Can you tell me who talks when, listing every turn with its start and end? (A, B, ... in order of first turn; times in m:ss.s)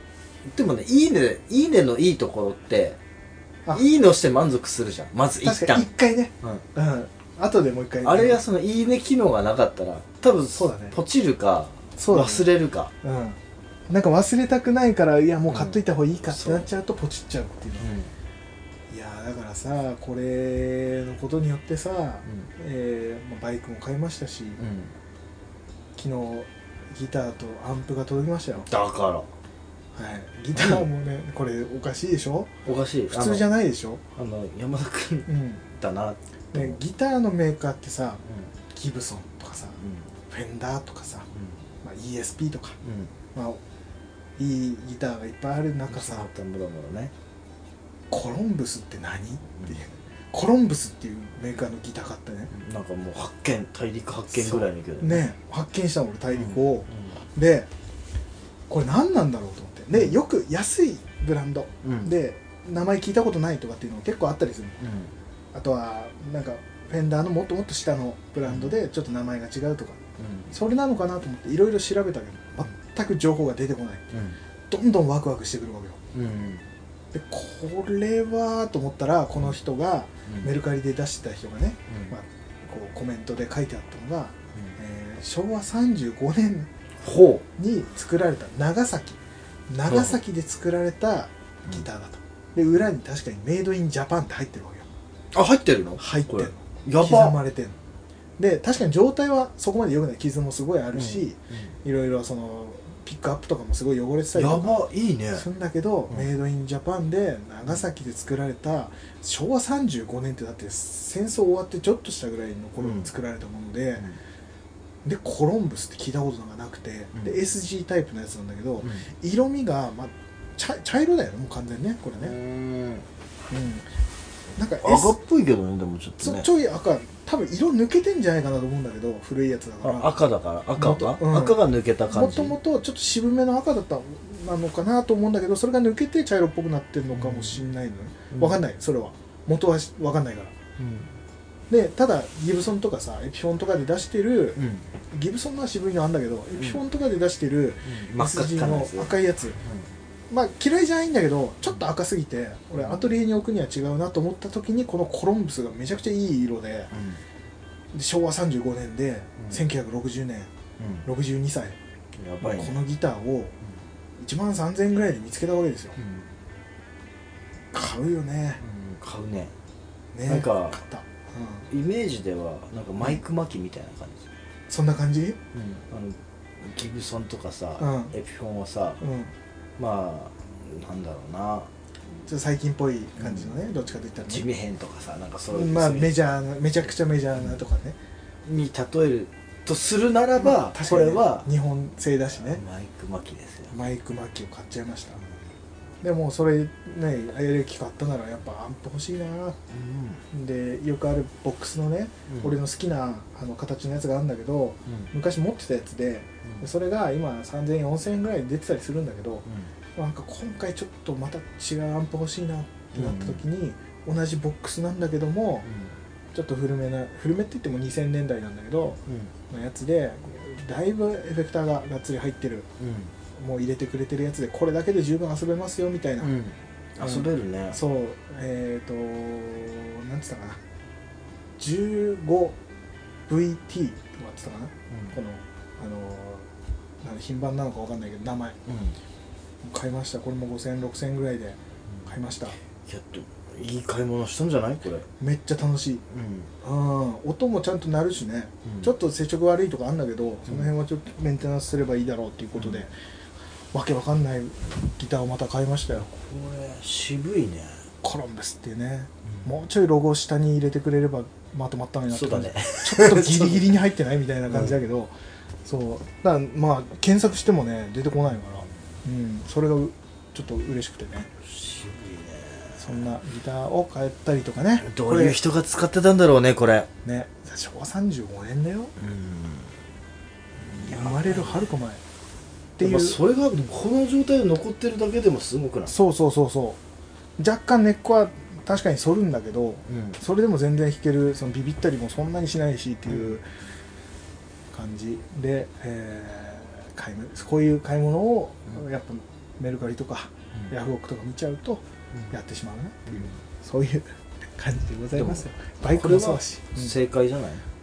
0:00.4-0:03.0 A
0:03.7-0:05.9 A
0:05.4-0:08.4 B
0:08.0-0:12.9 A
0:10.6-0:11.0 B
0:12.0-0:12.5 B
0:13.0-0:17.9 B
0:15.5-0:16.7 A
0:17.8-0:18.1 A
0:18.9-0:24.6 B
0:24.6-0:24.9 A
0:26.0-0:28.7 B
0:28.6-0:29.3 A
0:29.9-0:32.5 B
0:30.5-0:30.8 A
0:32.6-0:33.5 A
0:33.1-0:34.0 B
0:34.1-0:36.8 A
0:35.3-0:35.6 B
0:36.5-0:38.2 B
0:38.7-0:41.3 B
0:39.8-0:40.1 A
0:41.3-0:41.6 A
0:41.8-0:42.8 B
0:42.8-0:43.1 A
0:43.3-0:43.6 B
0:44.4-0:46.3 B
0:45.9-0:47.1 A
0:48.1-0:52.5 B
0:52.5-0:55.2 A
0:54.4-0:57.7 B
0:56.3-0:57.2 A
0:58.7-1:04.8 B
1:01.8-1:02.1 A
1:04.8-1:05.1 A
1:05.5-1:14.1 B
1:08.4-1:08.8 A
1:10.2-1:10.5 A
1:14.1-1:14.4 A
1:14.7-1:16.0 B
1:16.1-1:16.6 A
1:17.1-1:26.7 B
1:20.3-1:20.5 A
1:21.9-1:22.1 A
1:27.0-1:27.4 A
1:27.6-1:34.9 B
1:29.9-1:30.2 A
1:35.3-1:37.4 A
1:36.0-1:37.8 B
1:38.4-1:44.8 B
1:40.9-1:41.7 A
1:44.3-1:45.4 A
1:45.3-1:54.1 B
1:52.8-1:53.1 A
1:55.0-2:02.3 B
1:58.8-1:59.1 A
2:02.2-2:03.0 A
2:03.5-2:03.9 B
2:04.6-2:05.2 B
2:04.8-2:06.5 A
2:06.2-2:10.1 B
2:09.8-2:12.6 A
2:10.8-2:20.5 B
2:17.1-2:17.6 A
2:18.3-2:18.6 A
2:20.8-2:21.1 A
2:21.7-2:29.6 B
2:24.6-2:24.8 A
2:27.8-2:29.9 A
2:30.3-2:36.9 B
2:36.9-2:37.2 A
2:37.9-2:40.5 B
2:40.8-2:41.0 A
2:41.0-2:41.8 B
2:42.2-2:42.8 A
2:42.4-2:43.5 B
2:44.2-2:46.0 B
2:46.0-2:46.3 A
2:47.7-2:48.6 B
2:48.6-2:49.5 A
2:50.1-2:51.7 B
2:50.3-2:50.8 A
2:51.7-2:54.3 A
2:54.7-2:55.4 B
2:55.5-2:59.0 A
2:57.8-2:58.1 B
2:59.0-2:59.3 B
2:59.8-3:01.7 A
3:02.2-3:04.4 B
3:03.2-3:03.5 A
3:04.3-3:06.2 A
3:05.5-3:08.0 B
3:08.4-3:11.5 A
3:10.4-3:12.6 B
3:12.4-3:13.7 A
3:13.7-3:15.2 B
3:16.0-3:19.6 B
3:19.7-3:20.2 A
3:20.3-3:29.4 B
3:22.3-3:22.6 A
3:29.4-3:29.7 A
3:30.0-3:35.7 B
3:32.9-3:33.4 A
3:35.6-3:36.0 A
3:36.3-3:42.7 B
3:39.1-3:39.3 A
3:42.8-3:43.1 A
3:43.4-3:46.3 B
3:46.2-3:47.8 A
3:47.0-3:50.6 B
3:51.6-3:52.6 B
3:53.3-3:56.5 B
3:54.9-3:55.2 A
3:57.0-3:58.6 B
3:58.7-3:59.0 A
3:59.6-4:02.6 B
4:02.8-4:05.1 A
4:05.2-4:06.0 B
4:06.1-4:06.5 A
4:06.6-4:12.9 B
4:08.6-4:08.9 A
4:13.7-4:16.1 B
4:16.1-4:17.8 A
4:18.0-4:25.1 B
4:22.1-4:23.7 A
4:24.5-4:24.8 A
4:25.6-4:31.3 B
4:31.4-4:32.9 A
4:32.8-4:35.4 B
4:34.8-4:36.9 A
4:37.0-4:38.9 B
4:39.0-4:39.8 A
4:40.6-4:41.7 A
4:40.8-4:42.0 B
4:42.8-4:43.2 B
4:42.8-4:45.9 A
4:45.8-4:46.8 B
4:47.4-4:53.4 B
4:49.9-4:50.2 A
4:54.7-5:06.9 B
5:03.1-5:03.4 A
5:05.1-5:07.6 A